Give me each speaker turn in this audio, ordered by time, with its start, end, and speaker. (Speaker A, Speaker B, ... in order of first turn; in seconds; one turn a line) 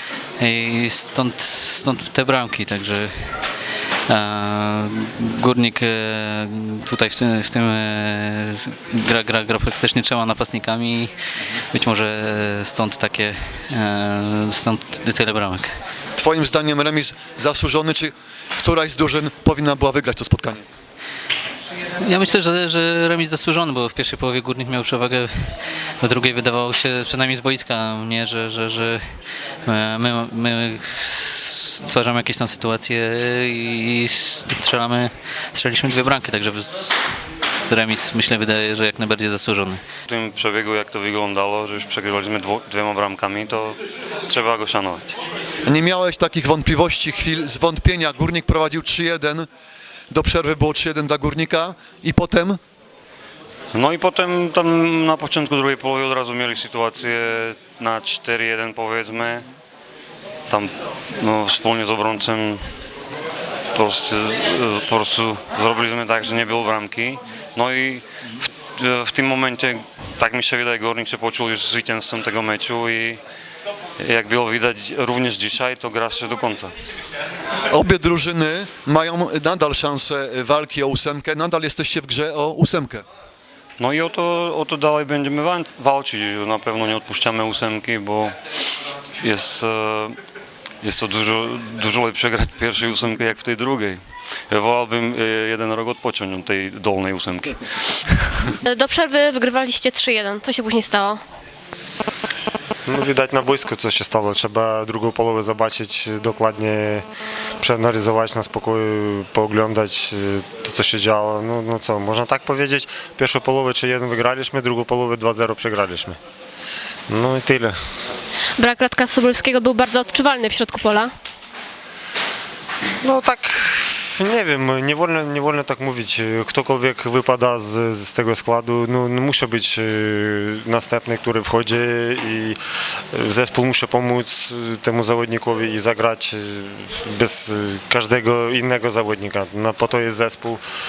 Speaker A: 0.4-3.5
Speaker A: 4.1-11.1
Speaker A: 11.7-15.8
Speaker B: 16.1-20.6
Speaker A: 22.0-29.0
Speaker A: 29.6-37.0
Speaker A: 37.6-39.8
Speaker C: 40.1-45.2
Speaker B: 45.6-49.5
Speaker B: 50.1-52.6
Speaker C: 53.7-59.5
Speaker C: 60.5-62.7
Speaker C: 63.7-73.2
Speaker C: 74.0-76.7
Speaker B: 77.7-83.0
Speaker C: 83.8-88.3
Speaker C: 89.2-90.2
Speaker C: 90.8-98.5
Speaker D: 98.6-101.2
Speaker E: 102.9-107.1
Speaker E: 107.6-116.2
Speaker E: 117.1-117.7
Speaker D: 118.6-121.1
Speaker E: 123.0-132.6
Speaker E: 133.1-140.6